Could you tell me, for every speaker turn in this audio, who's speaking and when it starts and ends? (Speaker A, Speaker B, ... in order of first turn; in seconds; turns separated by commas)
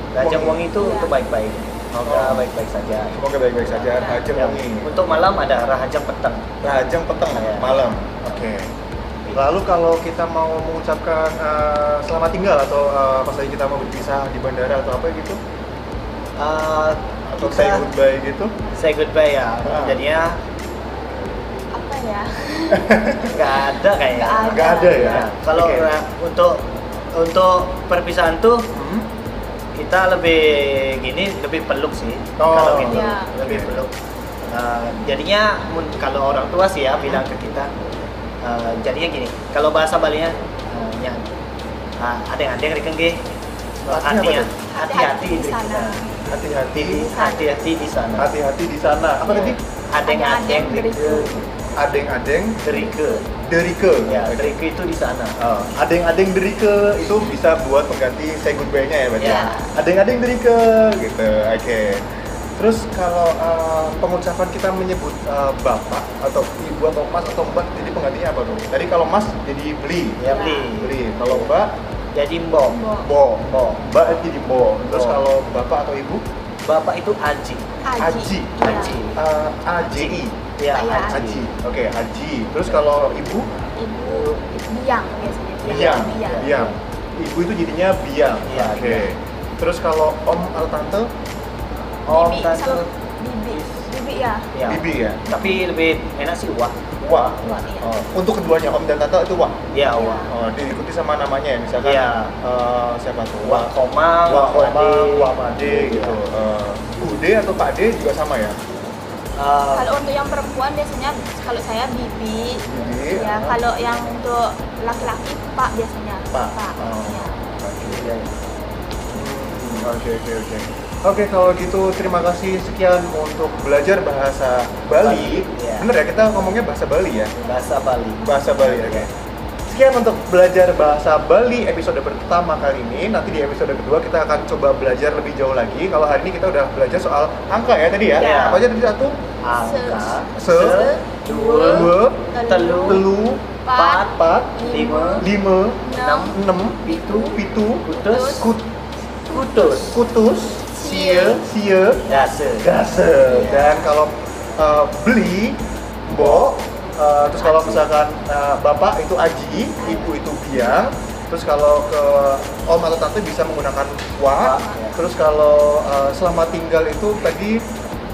Speaker A: 0.1-6.5, Speaker B: 0.2-0.7, Speaker C: 0.8-1.1, Speaker B: 2.0-2.5, Speaker B: 3.1-5.0, Speaker C: 4.0-4.2, Speaker B: 6.6-8.7, Speaker A: 7.3-8.5, Speaker B: 9.3-15.4, Speaker A: 16.4-17.9, Speaker B: 17.3-18.5, Speaker A: 18.8-20.4, Speaker B: 19.6-20.0, Speaker C: 21.7-23.0, Speaker B: 22.7-23.4, Speaker A: 23.3-28.7, Speaker C: 24.0-25.3, Speaker B: 24.5-25.9, Speaker B: 28.7-29.1, Speaker A: 29.8-33.9, Speaker B: 32.4-33.8, Speaker C: 32.8-33.3, Speaker A: 34.5-37.7, Speaker B: 37.0-37.3, Speaker A: 38.4-41.2, Speaker A: 42.0-43.2, Speaker A: 43.8-48.3, Speaker B: 43.9-44.5, Speaker C: 44.7-46.2, Speaker B: 46.2-47.1, Speaker C: 47.0-47.6, Speaker B: 48.2-49.6, Speaker A: 49.2-51.5, Speaker C: 50.0-51.5, Speaker B: 51.8-52.9, Speaker A: 52.6-53.3, Speaker B: 53.5-54.5, Speaker A: 54.1-55.7, Speaker B: 55.8-62.0, Speaker A: 59.2-59.6, Speaker C: 59.2-59.7, Speaker B: 62.6-70.2, Speaker A: 70.2-71.5, Speaker C: 70.2-70.7, Speaker B: 70.8-71.7, Speaker A: 72.2-72.9, Speaker C: 72.7-73.1, Speaker B: 73.0-76.2, Speaker A: 73.5-73.9, Speaker A: 74.8-75.2, Speaker A: 76.7-77.7, Speaker C: 77.8-79.0, Speaker B: 78.0-80.4, Speaker A: 78.6-79.2, Speaker A: 79.7-81.5, Speaker C: 80.7-81.3, Speaker B: 81.0-83.5, Speaker C: 83.8-86.5, Speaker A: 84.0-84.6, Speaker A: 85.6-86.8, Speaker B: 85.7-91.1, Speaker A: 88.5-89.1, Speaker A: 92.1-92.9, Speaker C: 92.1-94.5, Speaker A: 93.5-93.9, Speaker A: 94.5-96.8, Speaker B: 94.7-95.6, Speaker B: 97.0-103.7, Speaker C: 97.1-98.0, Speaker A: 99.7-100.3, Speaker C: 99.9-100.3, Speaker A: 101.8-102.3, Speaker A: 103.4-106.2, Speaker B: 104.3-108.5, Speaker A: 109.4-110.0, Speaker C: 109.7-117.3, Speaker B: 112.7-113.6, Speaker B: 116.3-118.2, Speaker A: 116.8-117.2, Speaker A: 117.9-118.3, Speaker B: 119.1-127.3, Speaker A: 119.6-119.9, Speaker A: 125.0-125.9, Speaker A: 127.5-129.1, Speaker B: 128.2-129.1, Speaker B: 129.7-139.2, Speaker C: 138.2-138.7, Speaker A: 138.2-138.7, Speaker A: 139.4-143.1, Speaker C: 139.5-143.1, Speaker B: 140.4-140.9, Speaker B: 141.6-144.5, Speaker C: 143.6-145.3, Speaker A: 143.7-145.3, Speaker B: 145.2-147.8, Speaker C: 145.8-148.5, Speaker A: 146.0-146.4, Speaker A: 146.9-147.3, Speaker A: 147.8-148.5, Speaker B: 148.4-148.6, Speaker C: 149.2-150.0, Speaker A: 149.3-150.0, Speaker B: 149.8-152.1, Speaker C: 150.7-151.4, Speaker A: 152.1-152.7, Speaker B: 152.6-167.6, Speaker C: 153.2-153.9, Speaker A: 156.1-156.5, Speaker A: 157.3-157.8, Speaker C: 159.8-160.2, Speaker A: 164.4-165.0